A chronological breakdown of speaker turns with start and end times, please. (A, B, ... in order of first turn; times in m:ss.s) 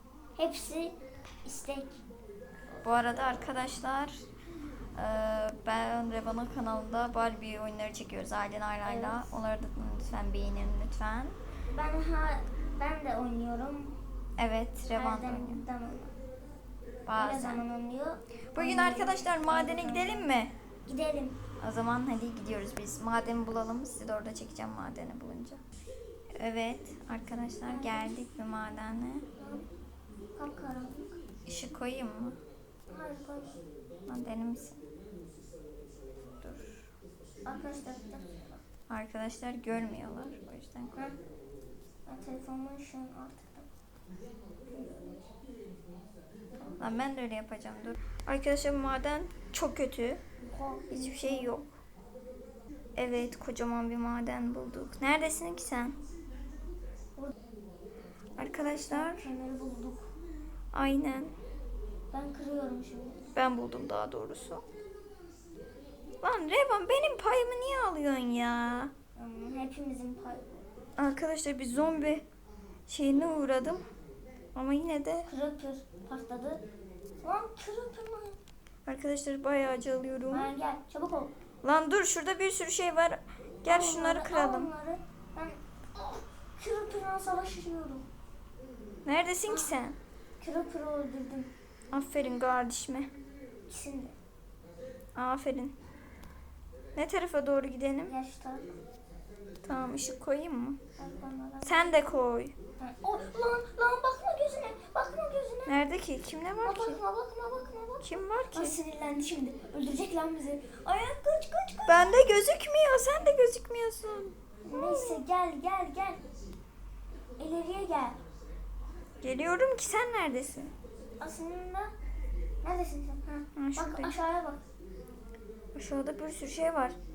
0:00.4-0:02.0 A
0:02.8-0:04.2 B
0:04.9-0:11.4 B
0:08.8-0:09.3 A
0:11.7-0:14.0 A
0:14.4-0:15.6 B
0:14.9-0:16.2 A
0:17.0-0:17.6 B
0:17.2-0:20.3 A
0:18.5-0:20.5 B
0:20.8-0:21.4 A
0:21.6-0:25.6 B
0:26.4-0:29.2 B
0:27.7-0:28.2 A
0:29.4-0:29.6 A
0:30.4-0:31.2 A
0:31.4-0:32.4 B
0:32.9-0:33.6 A
0:34.1-0:34.8 B
0:36.4-0:36.8 B
0:37.4-0:38.6 A
0:38.9-0:41.0 B
0:42.0-0:43.7 A
0:44.7-0:45.0 A
0:46.8-0:50.2 B
0:50.4-0:51.6 A
0:50.9-0:51.7 B
0:53.0-0:56.0 B
0:58.4-0:59.2 B
0:58.6-1:00.1 A
1:00.7-1:01.3 B
1:02.1-1:03.3 A
1:03.4-1:04.6 B
1:06.2-1:08.9 B
1:09.2-1:10.7 A
1:11.0-1:12.2 B
1:12.9-1:13.8 B
1:14.5-1:15.3 B
1:15.3-1:16.6 A
1:17.2-1:18.4 A
1:18.8-1:20.5 B
1:20.3-1:21.3 A
1:21.6-1:24.7 B
1:23.6-1:28.0 A
1:29.0-1:30.0 B
1:29.5-1:29.7 A
1:30.4-1:31.5 A
1:31.9-1:33.1 B
1:33.7-1:34.2 A
1:35.2-1:35.7 B
1:36.9-1:38.1 B
1:38.1-1:38.8 A
1:39.6-1:40.8 B
1:41.0-1:42.0 A
1:41.6-1:42.5 B
1:42.8-1:45.7 A
1:45.6-1:47.0 B
1:46.6-1:52.2 A
1:48.0-1:48.8 B
1:51.9-1:55.2 B
1:54.6-1:56.2 A
1:57.4-1:58.2 A
1:59.2-2:00.7 B
2:01.2-2:01.9 A
2:02.6-2:04.6 A
2:03.6-2:04.2 B
2:05.7-2:07.0 B